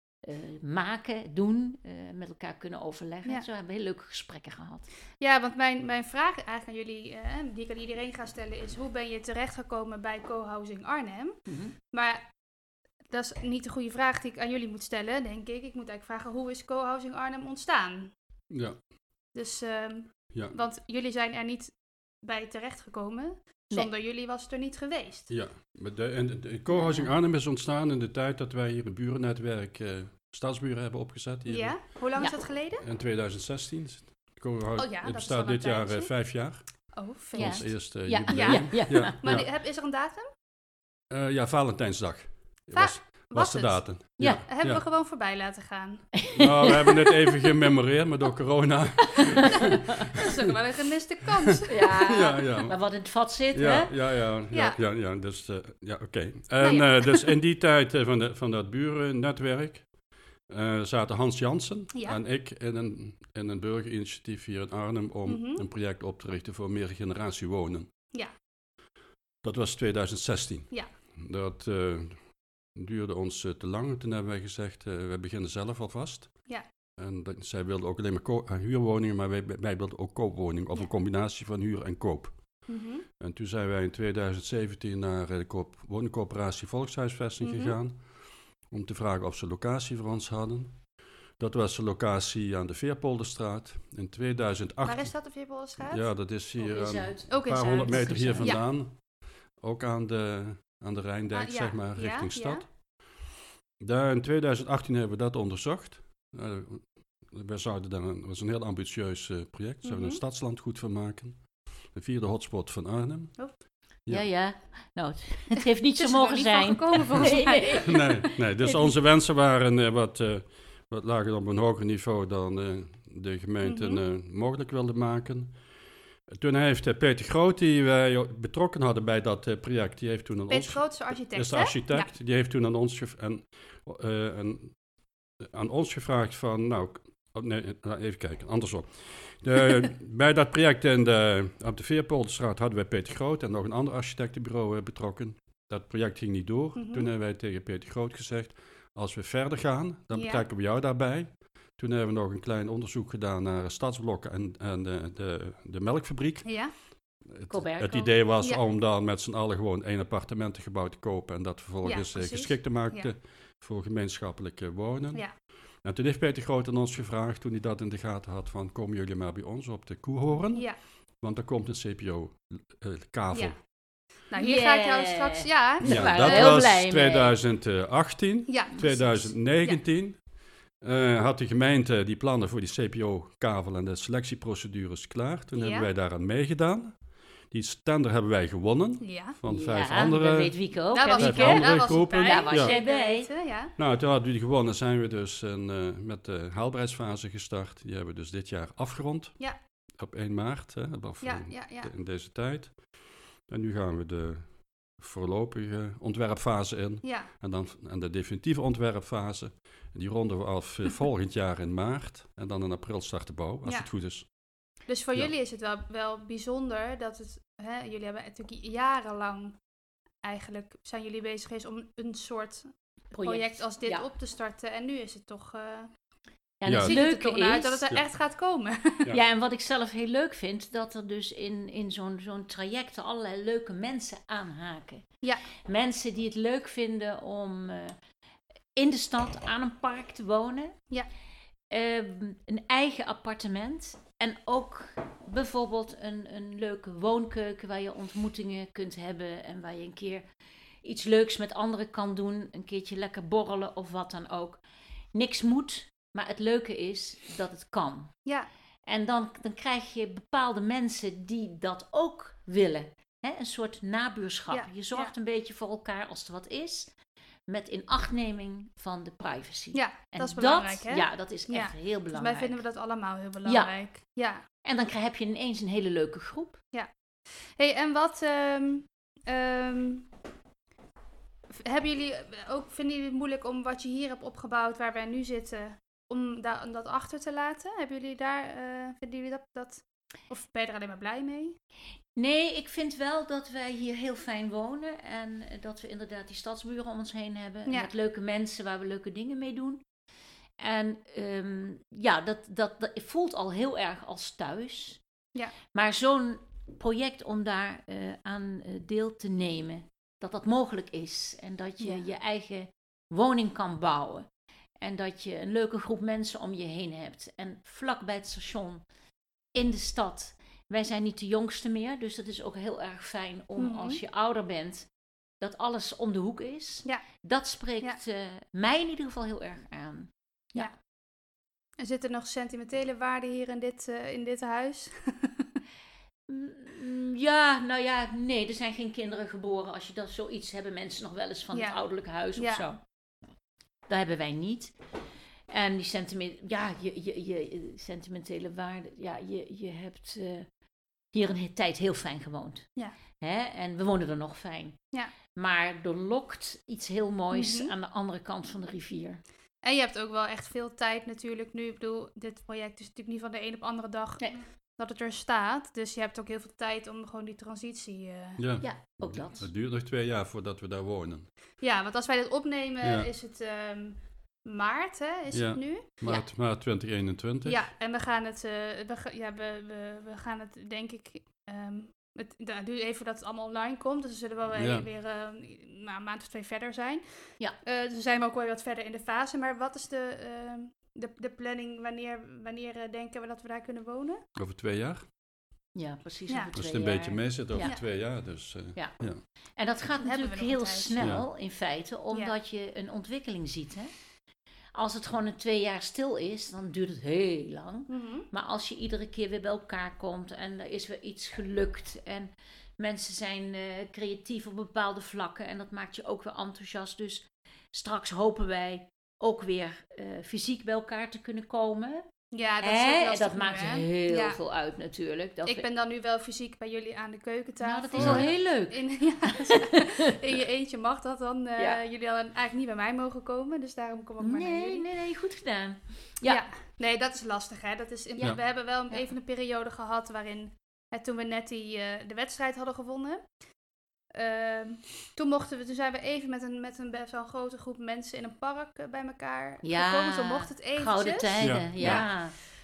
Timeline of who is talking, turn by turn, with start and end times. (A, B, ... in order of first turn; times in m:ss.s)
0:00.2-0:04.9 A
0:05.2-0:11.4 B
0:11.5-0:11.7 A
0:11.9-0:12.3 B
0:13.1-0:18.1 B
0:18.5-0:18.8 C
0:19.3-0:25.3 B
0:25.3-0:31.8 C
0:26.7-0:27.1 A
0:31.5-0:32.8 B
0:32.8-0:36.6 C
0:34.8-0:36.3 B
0:36.9-0:40.3 B
0:37.3-0:39.5 C
0:37.4-0:39.2 A
0:41.1-0:44.8 C
0:42.7-0:46.1 B
0:44.2-0:44.4 A
0:46.2-0:47.1 A
0:46.3-0:50.3 C
0:50.0-0:52.0 B
0:51.7-0:53.9 A
0:52.0-0:52.8 C
0:53.5-0:59.9 C
0:54.5-0:54.8 B
0:56.6-0:57.2 B
1:00.5-1:07.9 C
1:01.9-1:02.2 B
1:05.3-1:05.6 B
1:09.4-1:22.6 C
1:22.7-1:23.0 B
1:23.2-1:28.1 C
1:27.4-1:27.8 B
1:28.7-1:30.9 C
1:31.4-1:35.1 C
1:34.8-1:36.1 B
1:35.8-1:39.0 C
1:36.6-1:38.6 A
1:37.3-1:38.6 B
1:39.6-1:42.6 C
1:41.3-1:42.6 B
1:43.8-1:54.3 C
1:49.8-1:50.2 B
1:54.1-1:58.9 A
1:56.0-1:58.3 B
1:57.8-2:05.6 C
2:03.6-2:04.0 B
2:06.3-2:14.8 C
2:10.5-2:12.1 B
2:15.4-2:36.6 C
2:26.8-2:27.1 B
2:30.1-2:30.4 B
2:36.4-2:36.7 B
2:37.2-2:53.6 C
2:37.5-2:38.1 A
2:41.8-2:43.1 B
2:54.3-2:56.5 B
2:54.4-2:57.3 A
2:55.8-3:00.2 C
2:58.5-2:59.8 B
3:00.8-3:12.8 C
3:05.6-3:05.9 B
3:09.0-3:09.4 B
3:09.5-3:13.3 A
3:10.9-3:13.7 B
3:13.8-3:19.4 C
3:20.0-3:22.8 C
3:21.2-3:21.9 B
3:23.5-3:34.3 C
3:27.0-3:27.3 B
3:33.6-3:33.9 B
3:34.9-3:39.6 B
3:40.2-3:42.7 B
3:43.1-3:44.0 A
3:43.2-3:45.9 B
3:46.6-3:47.9 A
3:46.6-3:47.0 C
3:46.8-3:49.1 B
3:49.1-3:58.0 A
3:58.8-4:00.8 A
4:01.7-4:10.2 A
4:10.8-4:14.6 A
4:15.1-4:18.1 A
4:18.8-4:26.9 A
4:24.5-4:25.1 B
4:27.5-4:32.6 A
4:29.7-4:34.4 B
4:33.4-4:33.7 A
4:34.6-4:36.6 A
4:37.6-4:40.1 B
4:41.5-4:51.5 B
4:52.2-4:59.8 A
5:00.6-5:05.0 A
5:05.7-5:14.3 A
5:14.8-5:18.8 A
5:19.5-5:24.9 A
5:23.6-5:24.0 B
5:25.4-5:30.7 A
5:31.8-5:35.4 B
5:36.3-5:42.8 A
5:41.5-5:41.8 B
5:42.4-5:42.6 B
5:43.9-5:44.7 A
5:45.5-5:50.5 A
5:51.1-5:52.7 A
5:53.2-5:54.8 A
5:55.3-5:59.2 A
5:57.3-5:57.7 B
5:59.6-6:08.4 B
6:08.4-6:11.3 C
6:08.6-6:09.5 A
6:11.6-6:16.0 B
6:12.8-6:13.1 C
6:15.3-6:17.7 C
6:17.4-6:34.2 B
6:24.6-6:24.8 C
6:34.4-6:35.0 C
6:35.7-6:37.8 A
6:36.5-6:39.2 C
6:38.7-6:39.0 A
6:39.6-6:43.9 A
6:40.0-6:41.1 B
6:41.0-6:41.2 C
6:44.7-7:02.0 A
6:47.9-6:48.3 B
7:02.3-7:04.4 B
7:02.6-7:05.7 A
7:05.4-7:14.8 B
7:07.6-7:10.2 A
7:08.0-7:08.3 C
7:14.2-7:16.4 A
7:16.2-7:23.2 B
7:24.1-7:32.3 B
7:29.6-7:32.4 A
7:31.4-7:32.0 C